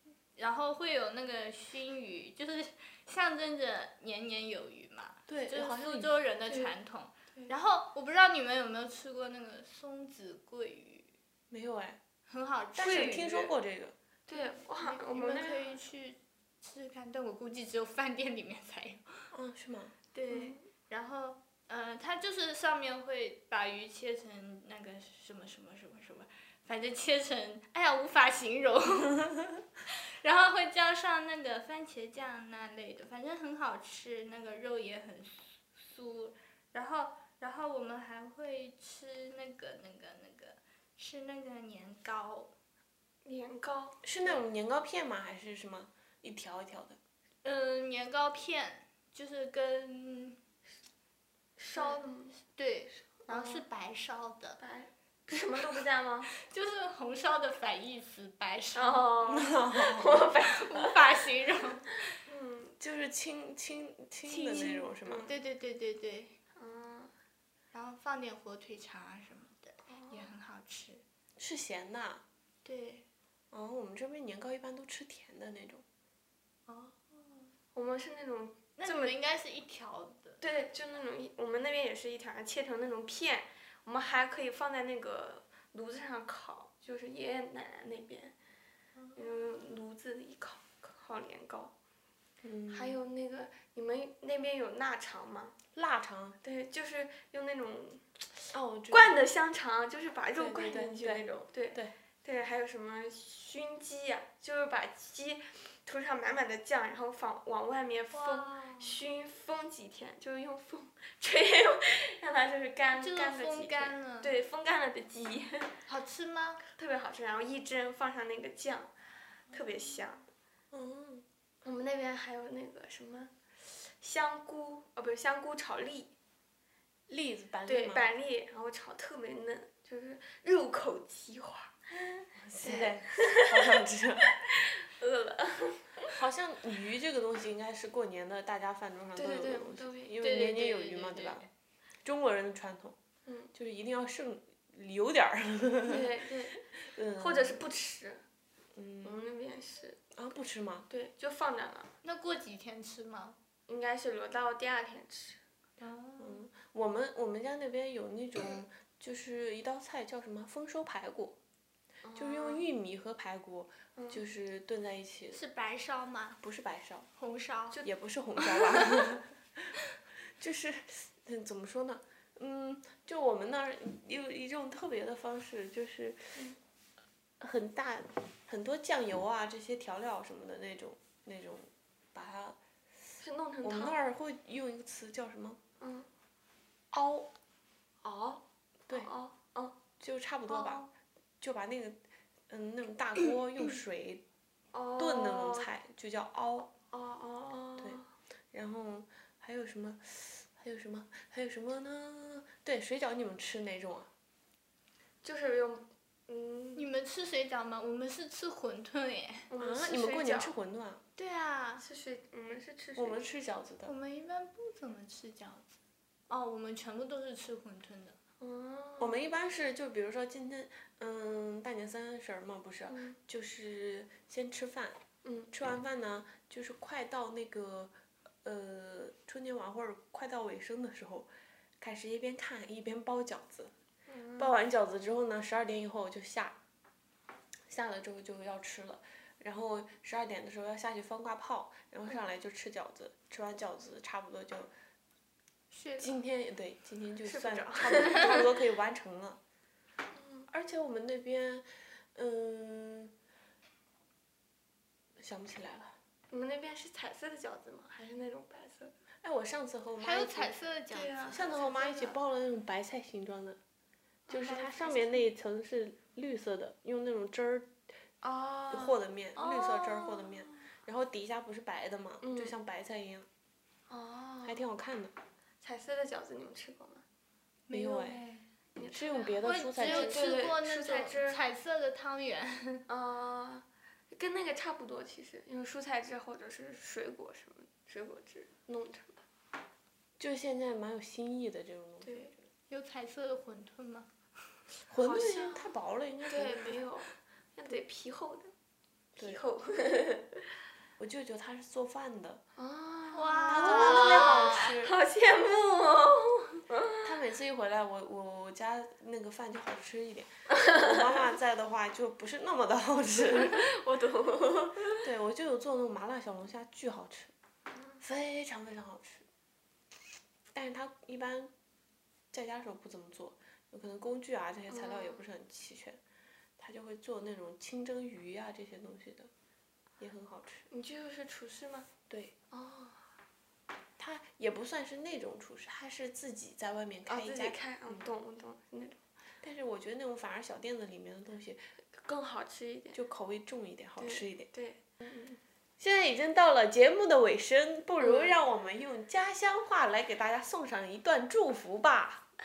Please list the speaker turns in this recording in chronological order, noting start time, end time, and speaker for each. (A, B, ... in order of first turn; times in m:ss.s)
0:00.4-0:11.1 A
0:05.3-0:06.1 B
0:06.5-0:06.7 C
0:11.5-0:12.0 B
0:12.3-0:13.3 A
0:12.8-0:13.9 B
0:12.8-0:13.5 C
0:14.3-0:15.8 C
0:14.3-0:19.3 A
0:19.3-0:20.0 B
0:20.1-0:42.5 A
0:20.3-0:20.6 C
0:43.2-0:44.0 C
0:44.0-0:47.0 B
0:47.4-0:50.4 A
0:51.6-0:52.4 C
0:51.7-0:54.6 A
0:53.3-0:53.7 C
0:54.6-0:56.3 C
0:56.4-0:59.1 A
0:58.8-1:01.0 C
0:59.2-1:00.2 B
1:00.3-1:02.2 A
1:02.3-1:02.7 C
1:02.8-1:05.3 B
1:04.3-1:05.3 C
1:05.2-1:06.3 A
1:06.6-1:07.1 C
1:07.7-1:11.0 A
1:09.9-1:10.3 C
1:11.4-1:12.2 B
1:12.6-1:13.1 A
1:13.5-1:15.8 B
1:16.7-1:17.5 A
1:17.7-1:19.2 C
1:18.8-1:20.4 A
1:20.4-1:28.3 C
1:29.1-1:31.7 C
1:32.4-1:33.0 B
1:32.7-1:35.6 C
1:35.8-1:36.4 B
1:36.4-1:38.2 C
1:38.5-1:39.2 B
1:38.9-1:55.7 C
1:40.4-1:41.9 B
1:48.1-1:49.0 A
1:53.0-1:54.4 A
1:55.9-1:56.6 A
1:56.8-1:58.9 C
1:59.5-2:00.2 C
2:00.7-2:01.2 B
2:01.6-2:03.3 C
2:03.8-2:06.1 C
2:07.1-2:08.1 B
2:07.7-2:13.6 C
2:12.4-2:14.3 B
2:14.5-2:16.1 C
2:16.1-2:21.5 B
2:19.2-2:20.4 C
2:20.2-2:21.5 A
2:22.0-2:23.0 B
2:23.3-2:23.5 C
2:23.5-2:26.2 B
2:25.9-2:26.7 C
2:26.9-2:27.6 B
2:27.2-2:28.2 C
2:28.8-2:29.2 B
2:29.0-2:30.0 C
2:30.2-2:30.9 B
2:30.9-2:31.9 C
2:32.0-2:33.4 A
2:33.7-2:35.4 C
2:35.8-2:36.4 A
2:36.2-2:41.4 B
2:42.0-2:42.6 C
2:42.2-2:45.4 B
2:44.0-2:44.2 C
2:45.3-2:46.4 A
2:46.4-2:47.1 B
2:47.2-2:47.8 A
2:47.8-2:49.7 B
2:48.4-2:48.9 A
2:50.4-2:56.4 B
2:57.4-3:02.6 B
3:03.2-3:04.0 C
3:03.6-3:05.6 B
3:05.8-3:06.1 C
3:06.9-3:07.3 B
3:08.0-3:09.8 C
3:10.0-3:10.9 B
3:10.5-3:10.9 C
3:11.4-3:12.0 B
3:12.5-3:14.2 B
3:14.7-3:15.7 C
3:15.0-3:16.7 B
3:16.9-3:18.0 C
3:18.5-3:24.1 B
3:25.2-3:26.9 C
3:26.8-3:29.5 A
3:29.5-3:30.5 C
3:29.6-3:31.0 B
3:31.2-3:31.8 A
3:31.8-3:33.2 C
3:33.0-3:34.0 B
3:33.9-3:35.7 A
3:36.3-3:38.2 A
3:38.4-3:39.2 C
3:39.0-3:45.0 B
3:42.9-3:43.2 C
3:45.2-3:45.5 C
3:45.5-3:51.3 B
3:51.8-3:53.7 B
3:54.1-3:54.6 C
3:54.4-3:56.6 B
3:57.7-4:04.7 B
4:05.7-4:06.2 A
4:06.0-4:09.4 B
4:07.2-4:08.5 C
4:10.1-4:10.5 C
4:10.5-4:13.1 B
4:15.2-4:15.9 B
4:16.3-4:18.9 C
4:19.2-4:20.5 B
4:20.0-4:22.2 A
4:20.9-4:21.6 C
4:21.3-4:23.6 B
4:24.3-4:24.7 C
4:24.3-4:27.7 B
4:24.4-4:25.2 A
4:28.2-4:30.6 C
4:28.7-4:33.3 B
4:32.2-4:32.6 C
4:33.9-4:34.6 C
4:34.4-4:35.1 B
4:35.6-4:37.0 C
4:37.7-4:38.4 A
4:37.7-4:38.2 B
4:38.8-4:41.4 C
4:38.8-4:40.3 B
4:39.4-4:42.8 A
4:42.9-4:49.2 C
4:50.2-4:52.5 B
4:52.0-4:52.3 C
4:52.7-4:54.1 A
4:54.9-4:56.8 B
4:55.0-4:55.7 C
4:56.3-4:58.5 C
4:59.2-5:00.3 C
4:59.2-4:59.5 B
5:01.0-5:02.4 B
5:02.6-5:07.2 C
5:03.1-5:04.8 A
5:03.5-5:05.0 B
5:07.0-5:13.6 B
5:10.6-5:11.0 C
5:13.2-5:15.0 C
5:15.0-5:17.3 B
5:18.0-5:19.3 B
5:20.5-5:21.5 B
5:22.3-5:26.0 B
5:24.7-5:25.2 C
5:26.6-5:29.3 B
5:30.0-5:30.7 B
5:30.7-5:31.9 C
5:32.1-5:32.3 B
5:32.5-5:33.0 C
5:34.0-5:38.1 B
5:37.1-5:39.0 C
5:39.4-5:41.6 B
5:42.0-5:43.0 C
5:42.9-5:44.5 B
5:44.0-5:45.4 C
5:45.8-5:52.2 B
5:48.0-5:48.4 C